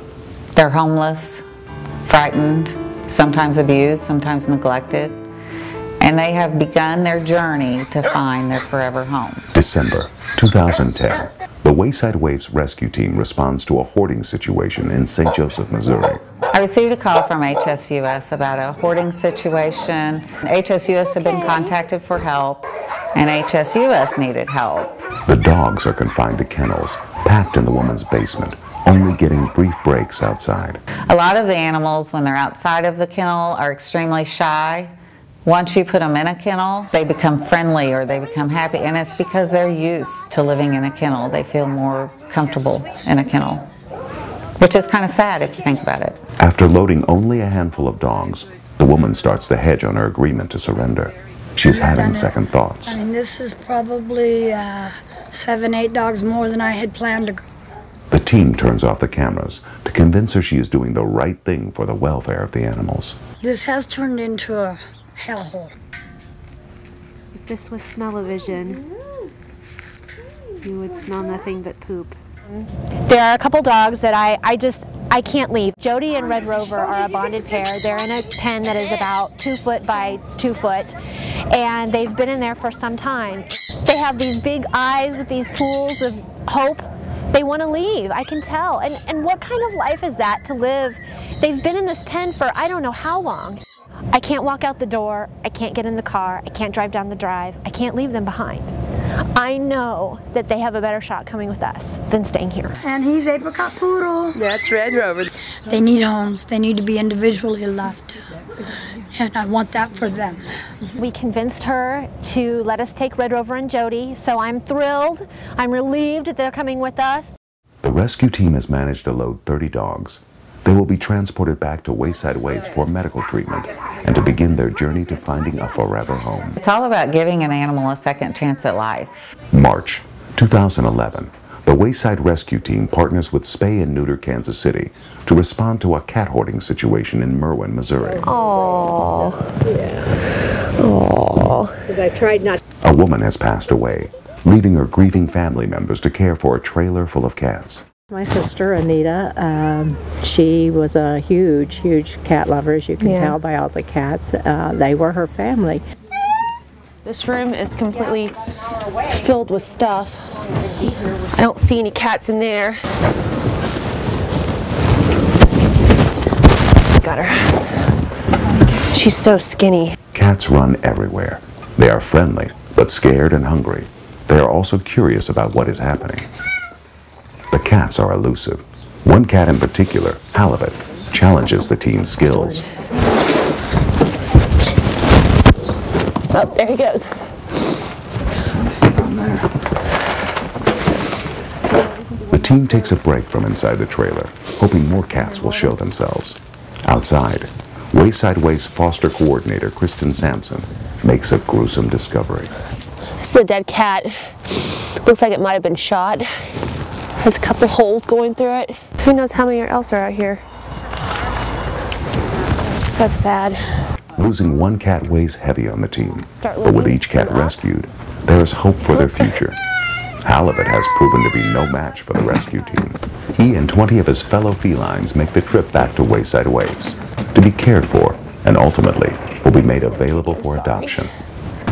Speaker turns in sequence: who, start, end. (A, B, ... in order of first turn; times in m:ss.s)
0:00.5-0:01.4 A
0:02.0-0:05.2 A
0:06.0-0:09.4 A
0:09.5-0:16.2 B
0:16.5-0:24.9 A
0:25.3-0:30.8 B
0:31.1-0:34.9 A
0:35.4-0:43.6 A
0:44.6-0:46.2 A
0:46.4-0:53.0 B
0:51.7-0:57.4 C
0:58.1-1:03.2 B
1:03.4-1:05.7 C
1:07.4-1:08.8 D
1:10.6-1:21.0 D
1:21.5-1:38.7 D
1:39.4-1:42.8 D
1:42.8-1:44.4 C
1:44.4-1:45.2 E
1:45.7-1:48.1 C
1:49.1-1:50.5 C
1:51.0-1:57.3 D
1:57.8-2:06.6 B
2:06.6-2:09.1 A
2:09.5-2:18.3 B
2:18.1-2:22.6 E
2:22.8-2:27.8 B
2:28.1-2:35.8 F
2:33.0-2:33.4 E
2:37.0-2:42.8 E
2:47.0-2:47.8 E
2:48.5-2:50.0 E
2:50.1-2:56.3 B
2:57.5-3:02.6 B
3:06.3-3:07.4 E
3:08.6-3:09.5 E
3:12.3-3:22.5 B
3:23.2-3:24.2 E
3:25.0-3:26.3 E
3:27.2-3:30.4 E
3:32.9-3:33.8 E
3:34.2-3:39.6 B
3:36.4-3:37.6 E
3:38.9-3:39.3 E
3:40.2-3:51.1 B
3:49.6-3:51.1 E